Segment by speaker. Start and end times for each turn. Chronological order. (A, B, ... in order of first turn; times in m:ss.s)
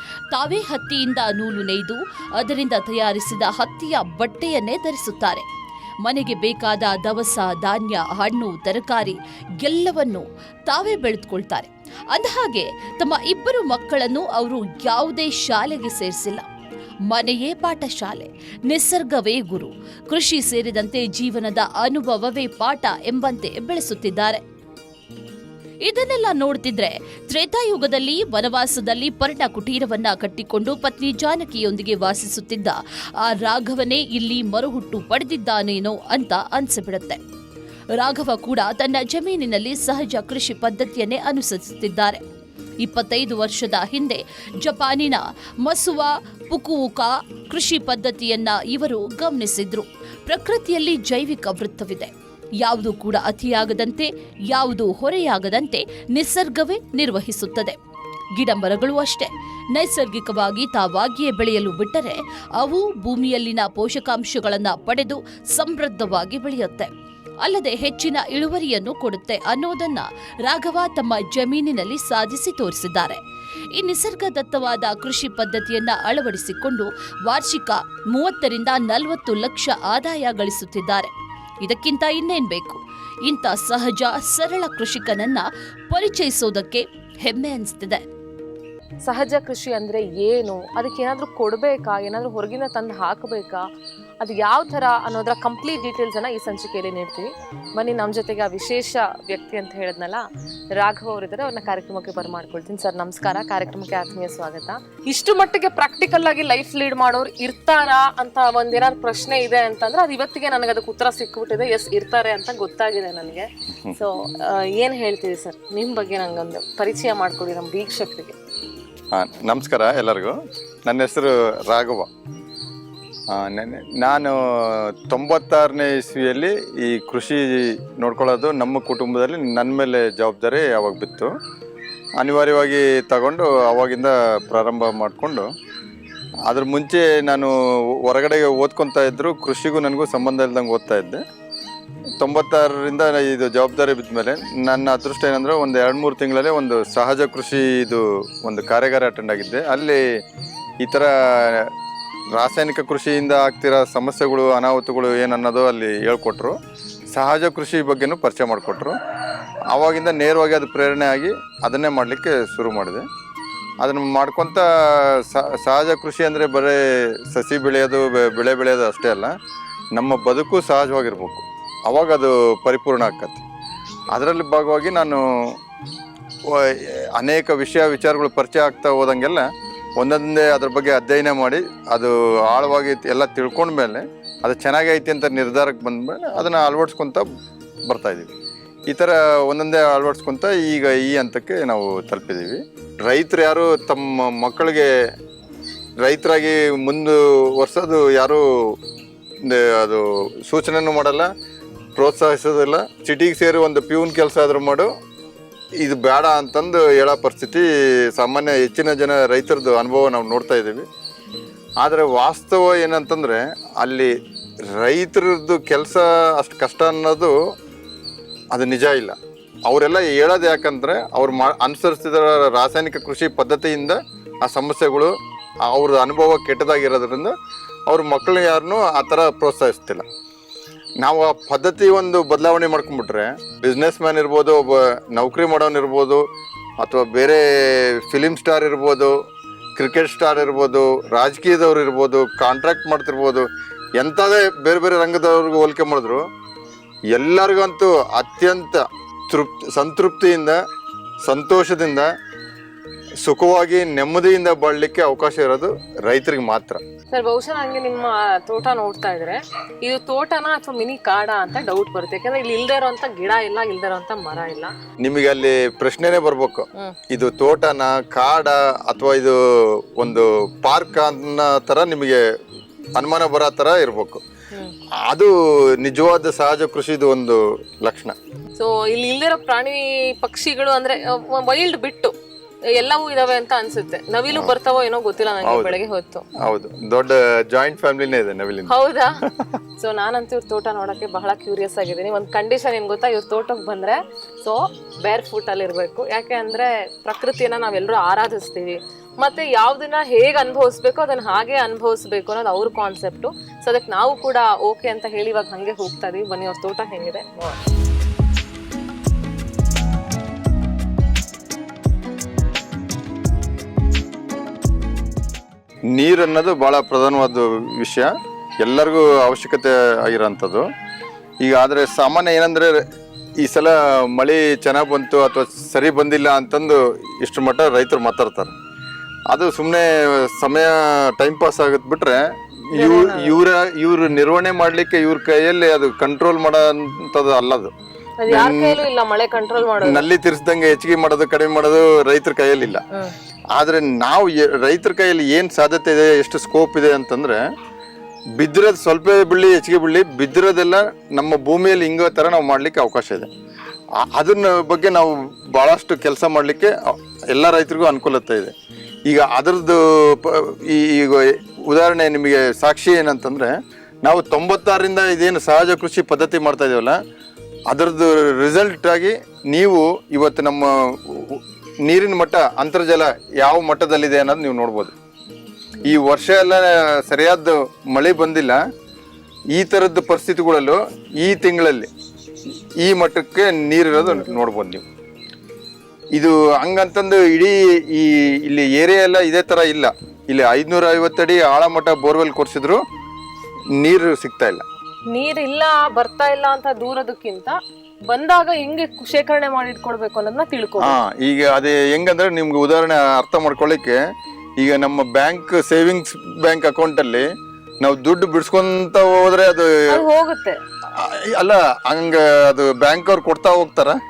0:00.3-0:05.4 A
0:06.0-0:16.5 A
0:17.1-0:24.4 A
0:25.8-0:37.2 A
0:38.0-0:42.2 A
0:42.8-0:52.1 A
0:52.6-0:57.8 A
0:58.3-1:06.9 A
1:07.4-1:13.2 A
1:13.7-1:21.1 A
1:21.6-1:28.0 A
1:29.0-1:33.6 B
1:34.2-1:58.4 B
1:59.1-2:02.1 C
2:03.3-2:11.3 C
2:12.2-2:15.5 C
2:16.5-2:21.2 C
2:22.2-2:30.0 C
2:30.8-2:31.7 C
2:32.3-2:36.6 C
2:37.1-2:39.0 C
2:39.7-2:43.1 C
2:43.8-2:49.3 C
2:49.9-2:53.4 C
2:54.1-2:55.6 C
2:56.4-3:07.2 C
3:07.8-3:08.3 C
3:08.9-3:14.9 C
3:16.0-3:18.8 C
3:19.4-3:21.3 C
3:22.0-3:24.9 C
3:25.8-3:30.9 C
3:31.8-3:34.1 C
3:34.7-3:37.4 C
3:38.5-3:47.3 C
3:47.9-3:50.0 C
3:51.0-3:56.2 C
3:56.8-3:59.2 C
3:59.8-4:06.2 C
4:07.1-4:10.6 C
4:11.2-4:12.1 C
4:13.2-4:16.8 C
4:17.1-4:24.7 B
4:25.0-4:32.2 C
4:33.0-4:34.2 C
4:35.0-4:38.2 C
4:38.6-4:42.1 B
4:42.7-4:46.2 B
4:45.4-4:45.8 C
4:46.4-4:48.7 C
4:48.7-4:49.2 B
4:49.2-4:49.6 C
4:49.8-5:07.6 B
5:15.9-5:18.1 C
5:18.6-5:20.6 C
5:21.4-5:22.8 C
5:23.4-5:28.5 C
5:29.3-5:37.7 C
5:32.7-5:33.4 B
5:38.2-5:40.0 B
5:38.3-5:38.8 C
5:39.8-5:42.8 C
5:43.5-5:47.4 C
5:48.4-5:53.3 C
5:54.0-5:58.5 C
5:59.1-6:07.0 C
6:07.7-6:14.9 C
6:15.8-6:18.6 C
6:19.5-6:21.9 C
6:22.8-6:24.8 C
6:24.0-6:24.4 B
6:26.1-6:32.8 C
6:33.8-6:34.6 C
6:35.1-6:41.0 B
6:40.8-6:44.0 C
6:44.6-6:47.3 C
6:47.8-6:50.0 C
6:49.9-6:50.6 B
6:50.9-6:54.0 C